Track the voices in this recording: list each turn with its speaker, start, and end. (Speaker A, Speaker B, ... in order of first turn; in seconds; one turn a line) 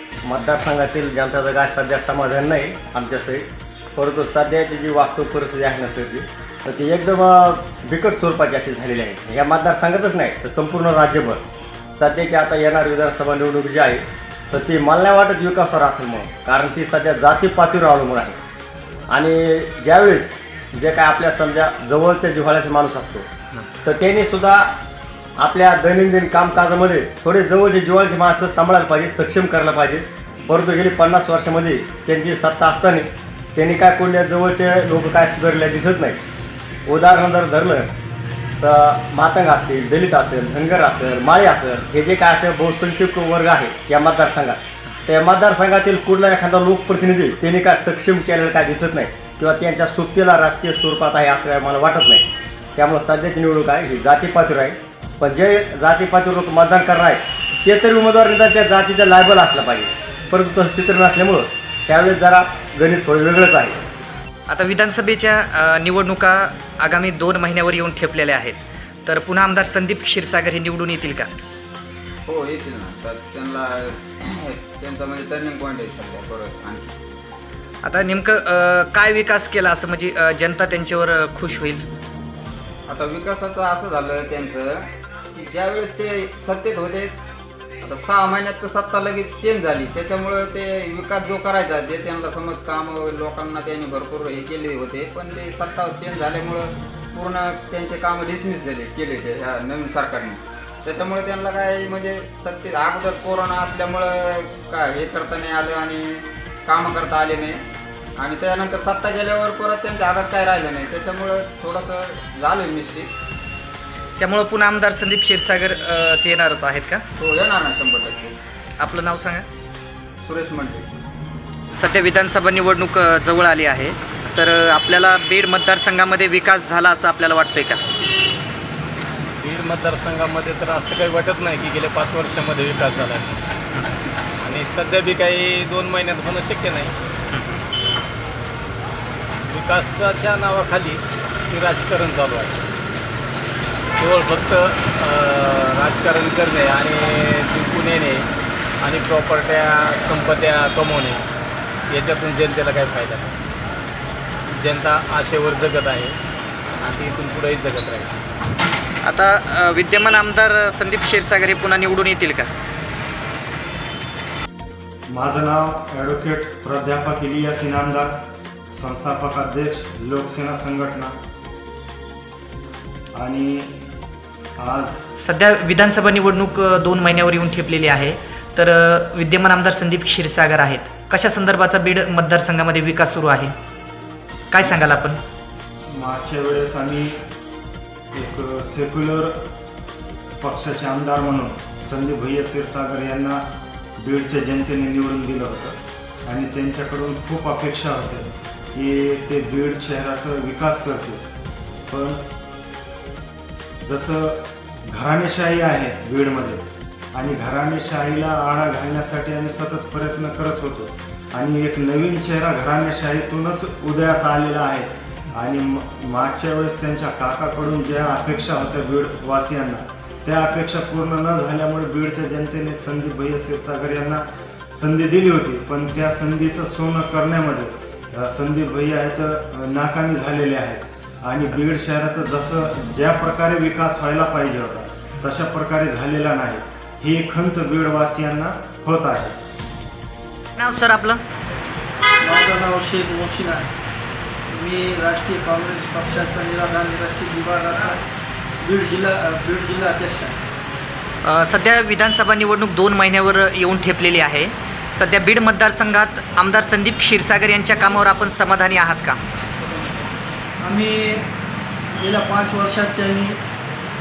Speaker A: 0.2-11.4
Speaker A: 11.9-18.4
Speaker A: 19.1-23.3
Speaker A: 23.8-24.7
Speaker A: 25.4-36.2
Speaker A: 36.9-37.9
Speaker A: 38.6-63.8
Speaker B: 64.5-71.3
Speaker C: 72.3-76.9
Speaker B: 77.8-81.8
Speaker C: 82.9-87.2
Speaker C: 87.8-107.6
Speaker C: 108.2-113.1
Speaker B: 114.2-117.0
Speaker C: 117.2-118.4
Speaker B: 118.8-119.5
Speaker C: 120.2-120.8
Speaker B: 121.7-127.8
Speaker D: 129.4-133.4
Speaker D: 134.4-136.9
Speaker D: 139.4-142.7
Speaker D: 144.0-148.3
Speaker D: 148.8-151.2
Speaker D: 151.9-153.4
Speaker D: 154.5-156.2
Speaker D: 156.8-158.1
Speaker B: 159.0-162.5
Speaker E: 165.1-168.2
Speaker E: 168.7-171.1
Speaker E: 173.2-173.8
Speaker E: 174.6-175.0
Speaker B: 175.2-183.5
Speaker B: 184.5-185.2
Speaker E: 185.9-187.2
Speaker E: 188.1-189.3
Speaker E: 190.4-193.4
Speaker E: 194.0-201.2
Speaker E: 201.9-202.2
Speaker E: 203.8-206.6
Speaker E: 207.1-224.2
Speaker E: 224.7-239.4
Speaker B: 240.6-241.2
Speaker F: 242.2-243.7
Speaker F: 244.5-248.0
Speaker F: 248.6-250.4
Speaker B: 251.2-259.2
Speaker F: 260.6-261.3
Speaker F: 262.0-263.4